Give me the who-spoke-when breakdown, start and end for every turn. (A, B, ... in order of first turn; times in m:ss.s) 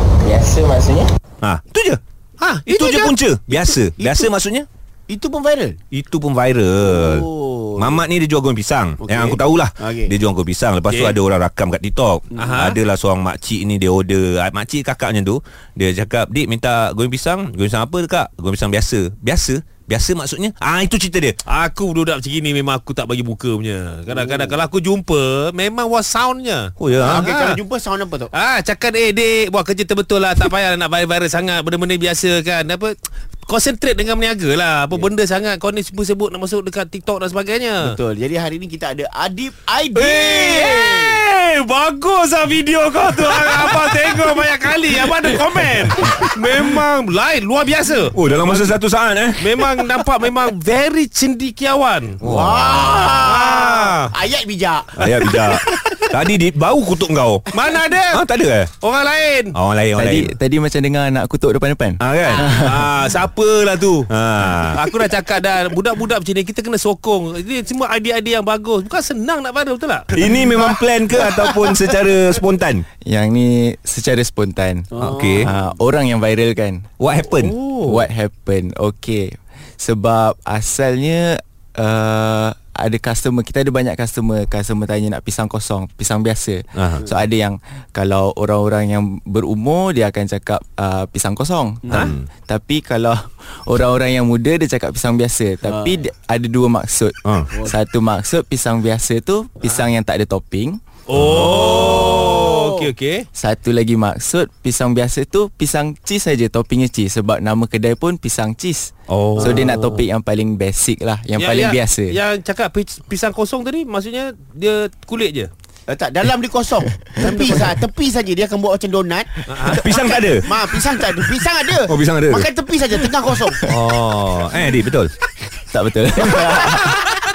0:00.2-0:01.1 A
0:01.4-0:02.0 B
0:02.4-0:03.8 C
0:02.7-0:04.7 B
0:04.0-0:04.3 D
0:05.1-0:05.8 D
0:05.9-0:21.4 B
0:06.8-0:08.0 D
0:09.0-0:10.2 D
0:10.9-0:11.2 C
0:12.4-0:12.8 C
0:21.5-0:27.6 C
0:26.8-0:27.3 B
0:27.0-0:28.3 D
0:28.3-0:37.9 C
0:37.8-0:41.2 D
0:40.0-0:48.8 C
0:48.2-0:49.6 B
0:49.4-0:52.2 C
0:52.2-0:53.0 B
0:52.2-0:56.3 D
0:53.0-0:54.1 C
0:55.0-0:57.5 B
0:55.1-0:55.6 C
0:57.5-0:58.2 C
0:58.1-0:58.7 B
0:58.8-0:59.6 C
0:59.6-1:00.3 B
1:00.0-1:02.9 A
1:02.0-1:02.5 B
1:02.3-1:04.1 C
1:04.1-1:04.8 B
1:04.7-1:10.3 C
1:10.1-1:12.9 B
1:13.0-1:16.9 A
1:15.0-1:15.7 D
1:15.0-1:15.5 B
1:17.0-1:17.5 B
1:17.3-1:18.0 C
1:17.8-1:40.8 A
1:26.8-1:27.0 B
1:31.8-1:32.1 D
1:31.9-1:32.3 B
1:35.6-1:36.0 D
1:37.3-1:37.5 B
1:41.1-1:43.2 C
1:41.2-1:41.9 B
1:41.5-1:42.9 D
1:41.8-1:42.2 A
1:43.4-1:52.2 A
1:49.1-1:50.0 C
1:51.4-1:55.5 C
1:55.9-2:03.6 D
1:57.2-1:57.6 C
1:59.5-1:59.8 C
1:59.7-2:00.6 B
2:01.8-2:02.5 B
2:03.6-2:05.1 B
2:03.7-2:04.0 A
2:05.7-2:07.1 A